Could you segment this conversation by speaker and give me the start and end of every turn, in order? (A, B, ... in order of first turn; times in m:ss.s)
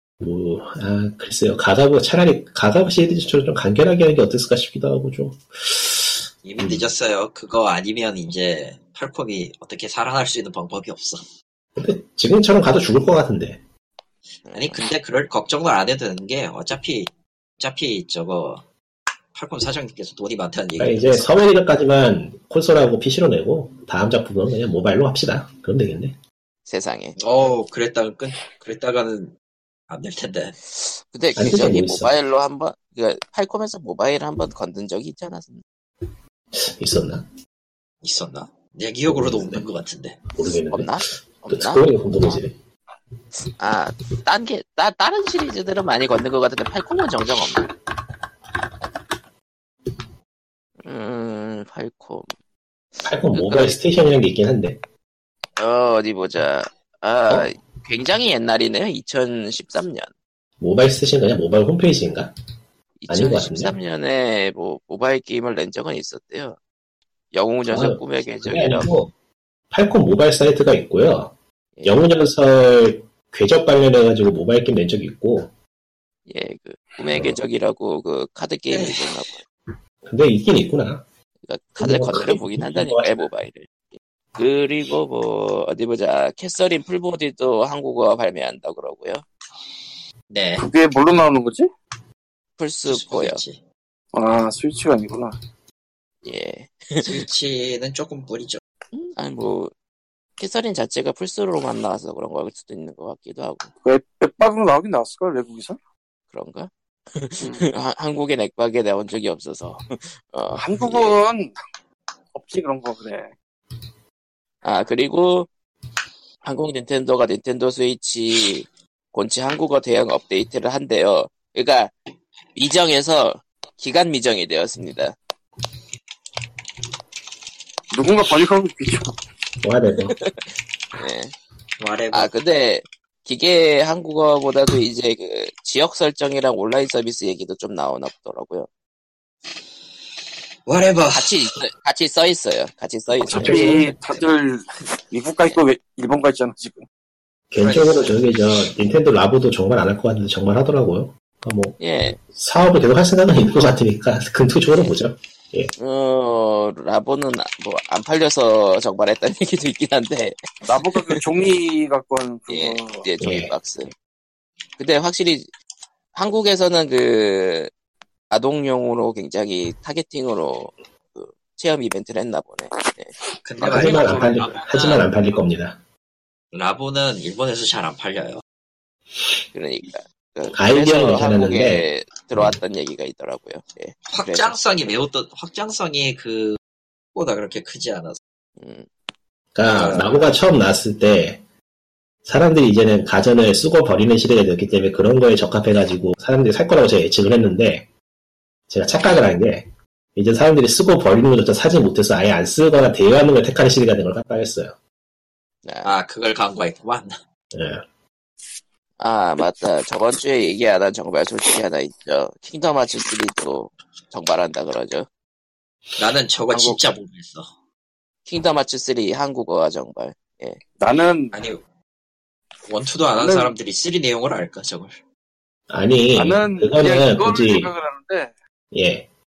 0:00.2-0:06.9 A
0:06.4-0:11.2 B
0:11.8-0:13.6 A
0:14.5-0:14.8 C
0:14.6-0:18.6 B
0:19.3-0:21.3 B
0:20.8-0:26.2 A
0:26.7-0:27.2 C
0:27.2-0:29.3 B
0:29.9-0:30.6 B
0:30.8-0:35.6 C
0:31.4-0:32.1 A
0:36.5-0:37.3 A
0:38.0-0:40.2 B
0:39.1-0:39.6 A
0:40.3-0:42.6 A
0:40.7-0:42.4 C
0:43.6-0:47.7 C
0:50.8-0:52.3 C
0:53.0-0:54.8 A
0:53.3-0:53.8 C
0:55.6-1:00.1 C
1:00.6-1:02.3 A
1:03.0-1:06.6 C
1:03.1-1:03.8 A
1:07.3-1:08.9 C
1:07.6-1:09.1 A
1:09.7-1:15.5 A
1:16.3-1:19.4 C
1:18.7-1:19.1 B
1:20.0-1:21.0 A
1:21.5-1:23.7 C
1:21.8-1:23.3 A
1:24.4-1:29.2 C
1:30.3-1:30.6 B
1:30.6-1:31.7 D
1:32.6-1:33.4 C
1:32.9-1:33.6 B
1:34.1-1:35.4 D
1:36.2-1:37.2 C
1:37.0-1:38.6 B
1:38.9-1:39.7 C
1:40.4-1:43.7 C
1:43.8-1:45.8 D
1:46.3-1:51.2 C
1:50.6-1:51.6 D
1:52.4-1:53.3 D
1:54.6-1:55.5 C
1:56.4-2:01.9 C
2:02.6-2:05.2 C
2:07.9-2:09.1 D
2:09.6-2:10.2 A
2:10.1-2:11.3 C
2:11.8-2:12.3 B
2:12.1-2:18.7 C
2:20.7-2:21.4 B
2:21.1-2:24.0 C
2:23.3-2:23.7 A
2:23.3-2:26.8 D
2:23.9-2:24.2 B
2:27.5-2:31.8 A
2:27.6-2:28.2 B
2:31.8-2:32.2 C
2:32.3-2:35.7 A
2:35.8-2:40.4 C
2:40.6-2:43.1 D
2:41.0-2:41.2 C
2:42.5-2:43.9 C
2:43.2-2:43.5 A
2:44.8-2:45.5 C
2:46.2-2:47.7 C
2:48.3-2:53.2 C
2:53.4-2:55.1 B
2:53.6-2:55.8 A
2:53.8-2:54.3 D
2:56.5-2:58.4 B
2:59.5-3:04.6 C
3:00.5-3:02.5 A
3:04.1-3:06.6 B
3:07.2-3:08.2 B
3:08.6-3:08.9 C
3:09.6-3:11.4 A
3:09.7-3:10.2 B
3:12.2-3:17.9 A
3:18.7-3:24.8 A
3:25.6-3:25.9 C
3:25.8-3:27.2 B
3:27.5-3:27.8 A
3:29.0-3:35.1 C
3:36.0-3:37.5 B
3:38.3-3:40.6 C
3:40.8-3:41.4 D
3:41.3-3:41.6 B
3:42.7-3:45.0 B
3:43.2-3:43.5 D
3:45.7-3:47.7 A
3:46.2-3:48.3 D
3:48.7-3:49.1 A